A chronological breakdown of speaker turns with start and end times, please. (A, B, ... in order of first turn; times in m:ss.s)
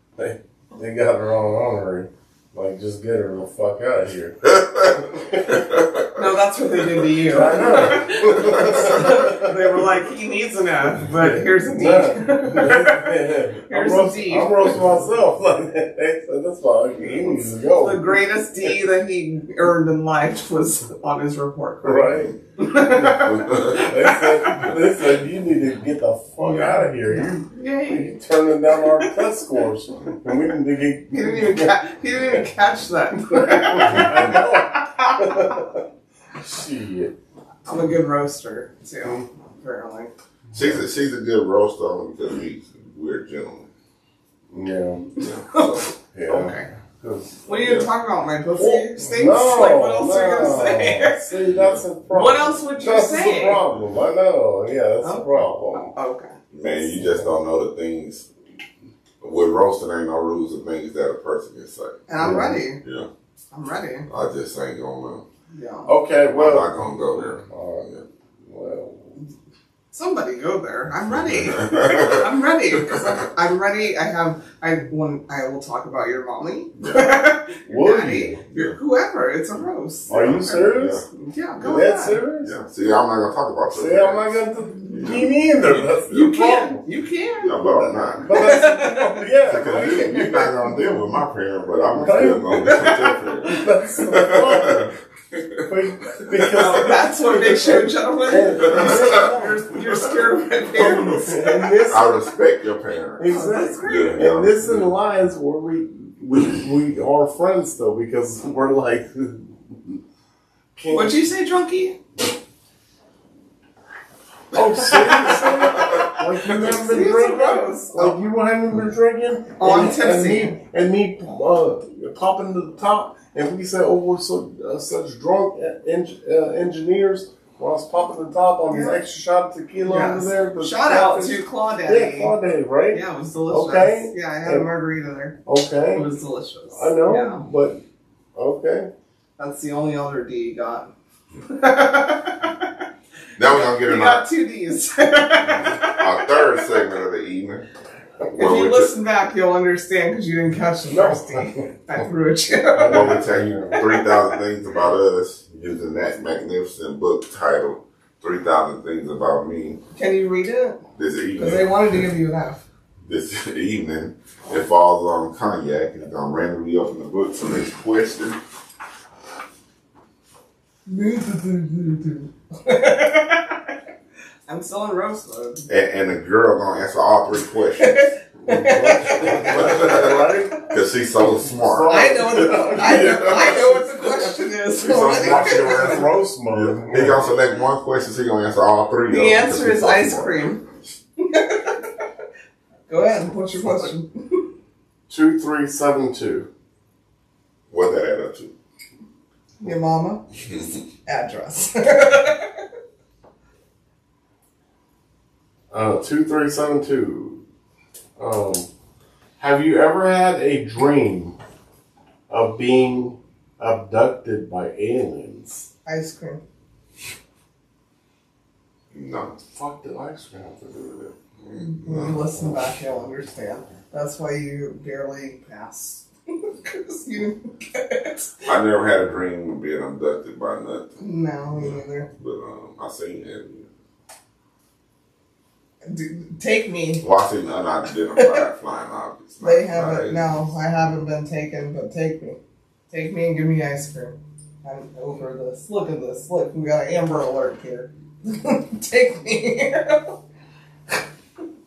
0:00.2-0:05.6 A
0:04.5-0:06.1 B
0:06.1-0:13.1 C
0:07.2-0:09.8 A
0:08.4-0:08.9 B
0:11.1-0:18.8 A
0:13.7-0:14.8 C
0:17.1-0:24.8 C
0:21.8-0:22.3 A
0:23.0-0:23.8 B
0:23.7-0:31.8 A
0:26.4-0:28.1 C
0:28.7-0:29.2 C
0:31.1-0:35.7 C
0:33.3-0:35.8 A
0:36.4-0:37.1 A
0:37.7-0:40.1 C
0:40.5-0:43.7 B
0:44.5-0:45.1 A
0:45.2-0:45.9 B
0:45.2-0:46.7 C
0:46.1-0:47.4 A
0:47.5-0:51.2 C
0:47.5-0:47.9 B
0:48.6-0:55.9 A
0:51.5-0:51.8 B
0:52.1-0:53.6 C
0:55.0-0:56.9 C
0:56.5-0:58.3 B
0:59.2-1:02.1 B
1:02.1-1:02.8 C
1:02.2-1:02.6 A
1:02.8-1:03.1 B
1:03.5-1:04.1 C
1:04.1-1:05.2 B
1:05.5-1:05.9 C
1:05.9-1:06.7 A
1:06.3-1:08.0 B
1:07.4-1:07.9 A
1:08.4-1:09.2 A
1:09.9-1:22.2 C
1:11.2-1:12.3 B
1:16.8-1:17.2 B
1:17.7-1:18.4 A
1:20.1-1:21.0 B
1:20.1-1:21.0 A
1:21.6-1:21.9 B
1:21.6-1:22.6 A
1:22.4-1:24.4 B
1:23.7-1:26.8 A
1:24.9-1:25.7 B
1:26.1-1:30.7 C
1:27.4-1:28.4 B
1:28.2-1:30.4 A
1:29.5-1:35.6 B
1:31.9-1:32.9 A
1:32.5-1:34.0 C
1:33.4-1:34.9 A
1:35.6-1:39.7 A
1:36.4-1:42.2 C
1:38.6-1:39.1 B
1:40.8-1:42.2 A
1:40.8-1:41.2 B
1:41.9-1:44.9 B
1:43.2-1:50.0 A
1:43.3-1:44.3 C
1:50.8-1:51.3 A
1:50.9-1:52.0 C
1:54.5-2:14.7 A
1:54.8-1:58.2 C
1:55.8-1:56.1 B
1:59.6-2:00.6 C
2:08.7-2:09.0 C
2:09.8-2:12.4 C
2:12.9-2:15.4 C
2:15.4-2:16.1 A
2:15.9-2:17.4 C
2:16.7-2:17.8 A
2:18.4-2:18.9 A
2:19.4-2:20.9 C
2:21.4-2:22.5 C
2:23.4-2:24.2 B
2:23.4-2:26.9 C
2:25.8-2:27.7 B
2:28.3-2:34.4 C
2:28.3-2:28.9 B
2:30.9-2:31.7 A
2:32.8-2:33.8 A
2:32.8-2:39.8 B
2:39.9-2:40.8 C
2:41.0-2:41.9 B
2:41.4-2:42.6 C
2:43.1-2:48.4 B
2:50.9-2:53.7 C
2:54.5-2:55.7 C
2:55.7-2:58.0 B
2:57.8-3:00.0 C
2:58.4-3:00.6 A
2:59.2-3:10.7 B
3:01.5-3:03.6 A
3:01.9-3:06.1 C
3:04.9-3:07.4 A
3:09.1-3:10.6 C
3:11.2-3:11.9 C
3:12.9-3:14.4 C
3:15.1-3:16.5 A
3:17.7-3:18.5 B
3:19.6-3:20.2 C
3:21.0-3:22.6 C
3:25.7-3:27.4 A
3:28.2-3:28.7 A
3:29.4-3:31.4 A
3:32.3-3:35.7 A
3:35.8-3:36.4 C
3:38.9-3:39.4 B
3:39.5-3:41.1 A
3:41.4-3:42.6 B
3:41.6-3:48.5 C
3:48.5-3:50.9 B
3:51.0-3:52.1 C
3:52.1-3:53.7 B
3:55.8-3:57.0 C
3:57.0-4:00.4 B
3:58.2-3:58.4 C
3:59.4-4:02.4 C
4:02.9-4:10.1 C